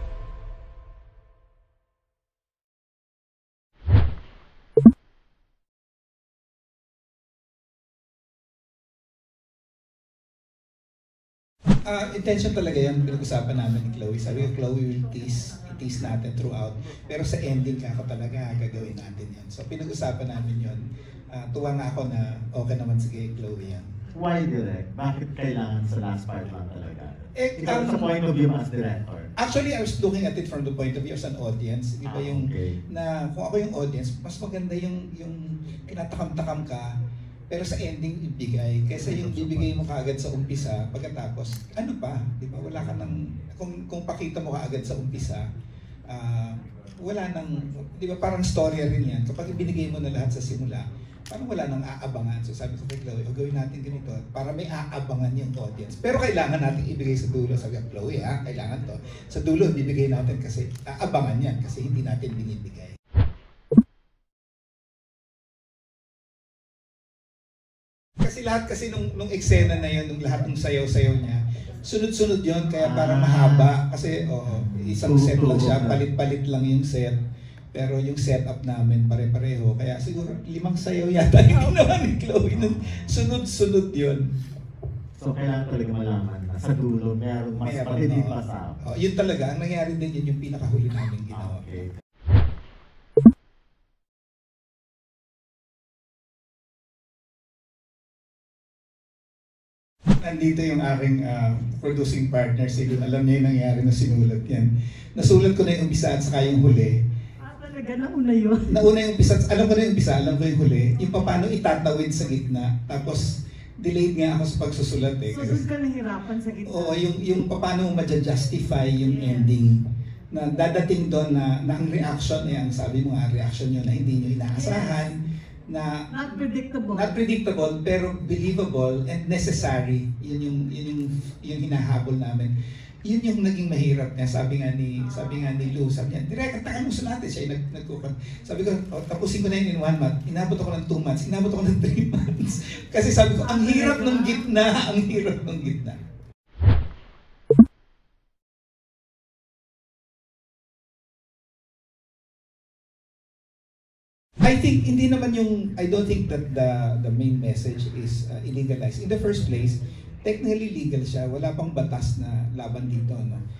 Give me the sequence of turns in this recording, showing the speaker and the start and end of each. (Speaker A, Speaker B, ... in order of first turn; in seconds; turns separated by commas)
Speaker A: 11.8-23.9, Speaker B: 24.1-29.3, Speaker A: 27.4-28.1, Speaker A: 29.4-36.9, Speaker B: 32.0-32.8, Speaker A: 37.5-45.4, Speaker B: 39.0-39.7, Speaker A: 46.1-63.0, Speaker A: 68.2-77.2, Speaker B: 72.8-73.7, Speaker B: 74.5-76.0, Speaker A: 77.7-84.3, Speaker B: 82.5-83.2, Speaker B: 85.2-88.8, Speaker A: 87.6-91.8, Speaker B: 91.5-91.9, Speaker A: 100.2-107.0, Speaker C: 107.5-108.6, Speaker A: 108.6-115.7, Speaker C: 115.5-116.8, Speaker A: 116.6-119.8, Speaker A: 120.3-132.5, Speaker C: 126.2-127.0, Speaker A: 133.0-146.0, Speaker A: 154.4-163.4